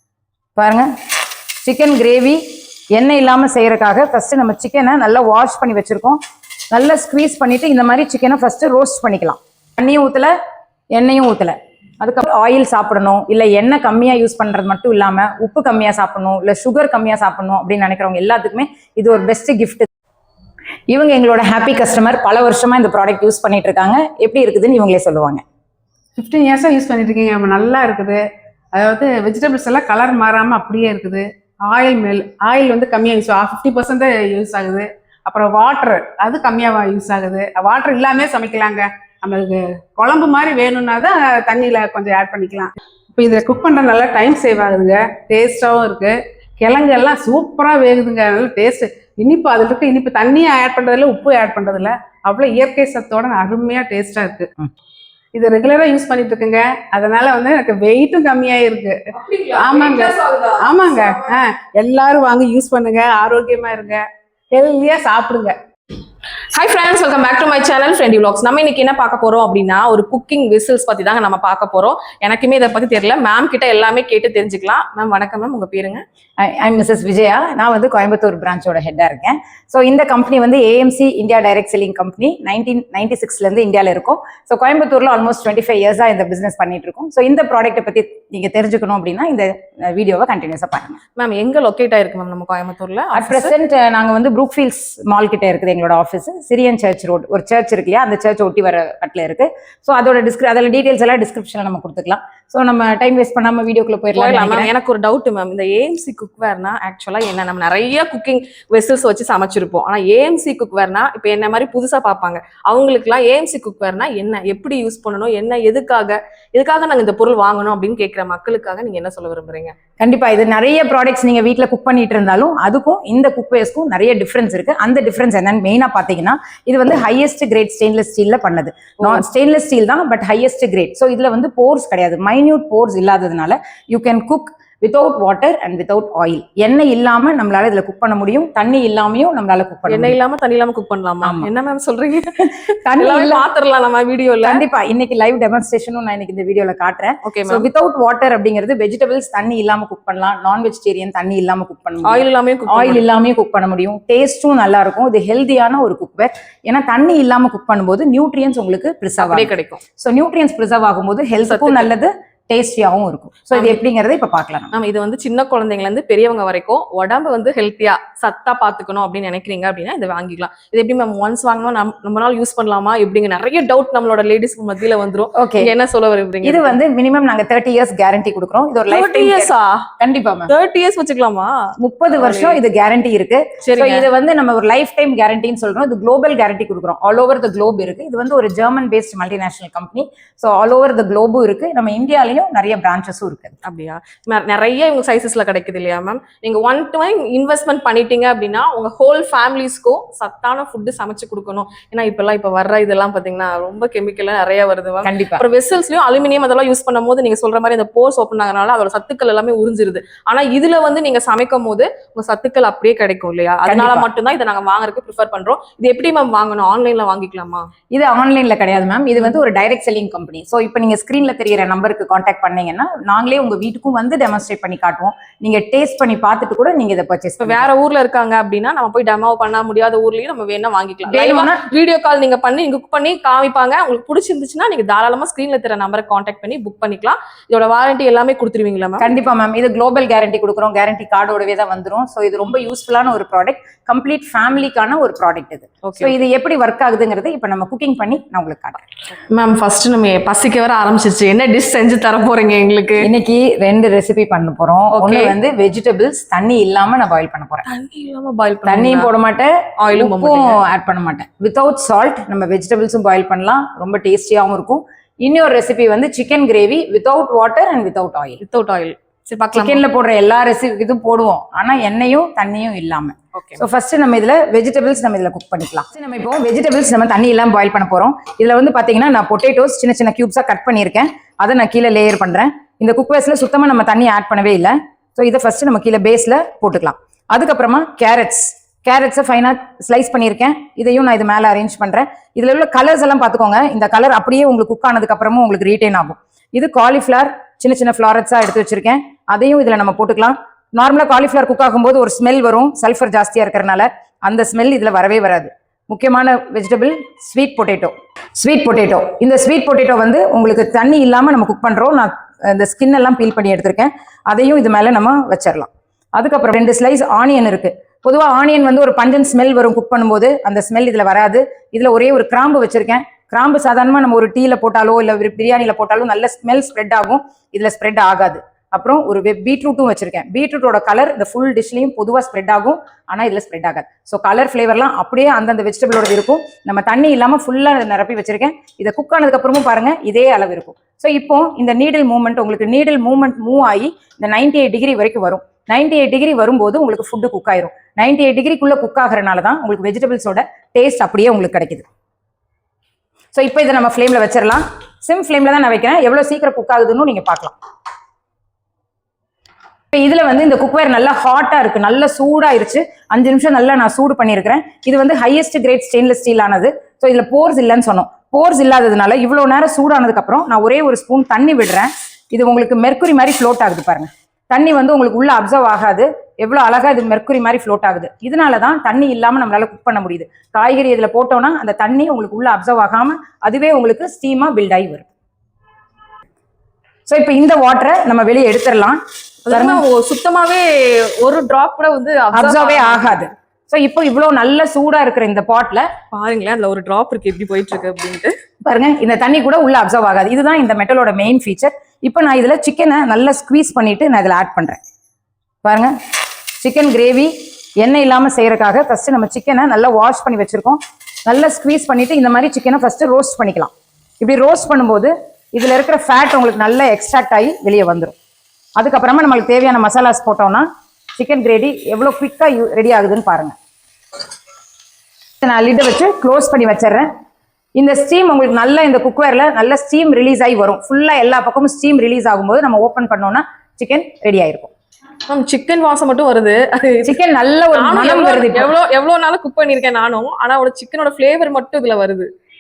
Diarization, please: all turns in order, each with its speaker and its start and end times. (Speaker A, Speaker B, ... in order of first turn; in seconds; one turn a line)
Speaker A: 0.6-0.9
Speaker A: 1.6-2.4
Speaker A: 3.0-6.2
Speaker A: 6.7-10.3
Speaker A: 10.9-19.9
Speaker A: 20.9-25.4
Speaker B: 26.2-28.2
Speaker B: 28.7-54.5
Speaker B: 55.3-65.6
Speaker C: 59.2-61.0
Speaker C: 66.5-76.0
Speaker A: 76.4-91.0
Speaker C: 91.2-93.5
Speaker A: 93.2-104.7
Speaker C: 104.2-119.7
Speaker A: 120.0-140.2
Speaker C: 139.9-144.7
Speaker A: 141.2-141.5
Speaker A: 142.8-143.4
Speaker A: 144.4-164.7
Speaker C: 147.2-147.7
Speaker C: 152.0-153.0
Speaker C: 159.2-159.8
Speaker C: 161.4-161.9
Speaker C: 163.5-163.8
Speaker C: 164.7-176.8
Speaker A: 175.3-175.7
Speaker A: 176.4-180.5
Speaker C: 178.9-179.9
Speaker C: 180.5-182.6
Speaker A: 181.8-193.5
Speaker C: 183.6-184.1
Speaker C: 193.6-217.7
Speaker A: 205.0-205.4
Speaker A: 213.7-214.1
Speaker A: 217.9-227.6
Speaker C: 227.4-239.1
Speaker A: 231.1-231.7
Speaker A: 239.0-248.8
Speaker C: 245.8-246.1
Speaker C: 249.2-253.1
Speaker A: 253.0-257.6
Speaker C: 254.9-255.3
Speaker C: 257.6-259.1
Speaker A: 258.6-268.4
Speaker C: 259.8-260.6
Speaker C: 268.4-269.8
Speaker A: 269.5-351.9
Speaker C: 273.4-273.6
Speaker A: 353.4-357.6
Speaker A: 359.9-385.1
Speaker A: 387.1-389.0
Speaker C: 389.5-390.7
Speaker A: 389.5-389.8
Speaker C: 391.2-393.3
Speaker A: 392.3-395.9
Speaker C: 396.1-398.3
Speaker A: 398.6-404.8
Speaker A: 405.6-405.9
Speaker A: 406.6-418.1
Speaker A: 418.8-420.7
Speaker A: 421.2-423.5
Speaker A: 425.4-427.1
Speaker A: 427.8-434.7
Speaker C: 435.3-437.1
Speaker A: 437.0-438.7
Speaker C: 437.7-442.3